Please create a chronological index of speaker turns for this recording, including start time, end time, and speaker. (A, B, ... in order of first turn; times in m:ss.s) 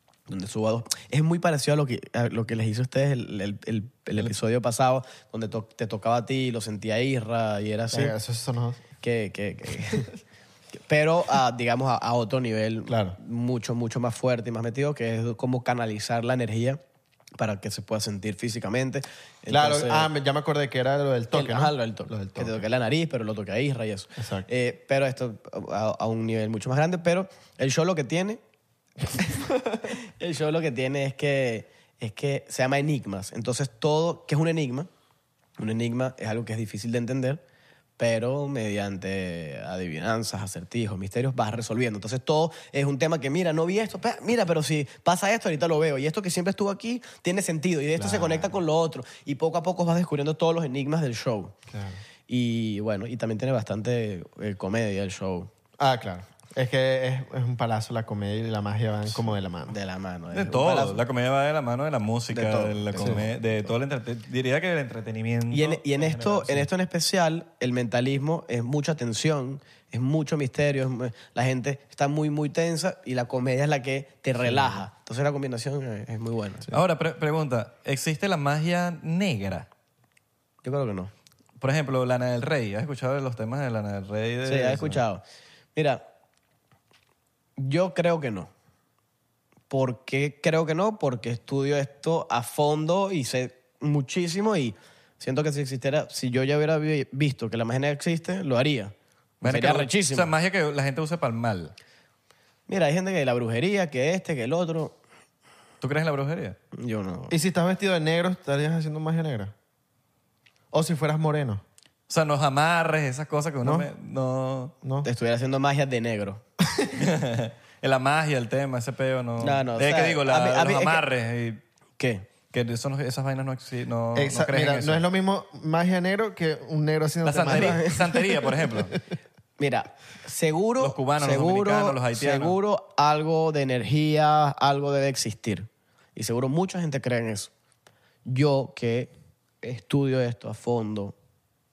0:00.3-0:08.1 A
0:07.9-0:08.8 B
0:09.0-0:10.2 A
0:10.8-0:16.8 A
0:12.9-0:13.2 B
0:17.4-0:20.1 A
0:19.5-0:22.7 B
0:21.3-0:28.4 A
0:24.2-0:24.5 B
0:29.2-0:29.9 B
0:30.2-0:34.9 A
0:35.6-0:37.4 A
0:38.0-0:51.6 A
0:48.0-0:48.6 B
0:51.7-0:52.0 B
0:52.3-0:55.5 A
0:55.8-0:59.8 B
0:59.1-1:01.0 A
1:00.3-1:06.7 C
1:02.3-1:03.7 A
1:05.5-1:16.7 A
1:14.4-1:14.8 B
1:16.7-1:19.7 C
1:20.6-1:21.1 A
1:21.6-1:25.0 C
1:24.5-1:25.2 A
1:25.8-1:26.0 A
1:27.6-1:28.5 A
1:29.7-1:38.9 A
1:39.4-1:41.7 C
1:39.4-1:40.3 A
1:42.7-1:45.0 A
1:45.8-1:46.6 C
1:46.7-1:47.4 A
1:47.3-1:49.5 B
1:50.7-1:51.6 B
1:52.1-1:54.7 C
1:53.6-1:53.9 B
1:54.8-1:55.1 B
1:55.0-1:56.4 A
1:56.6-1:56.9 B
1:56.9-2:01.6 C
1:59.4-2:01.0 A
2:02.0-2:02.3 A
2:02.5-2:05.0 C
2:04.2-2:08.9 B
2:07.2-2:09.0 C
2:07.4-2:07.9 A
2:09.6-2:17.5 A
2:10.8-2:12.6 C
2:18.3-2:21.2 A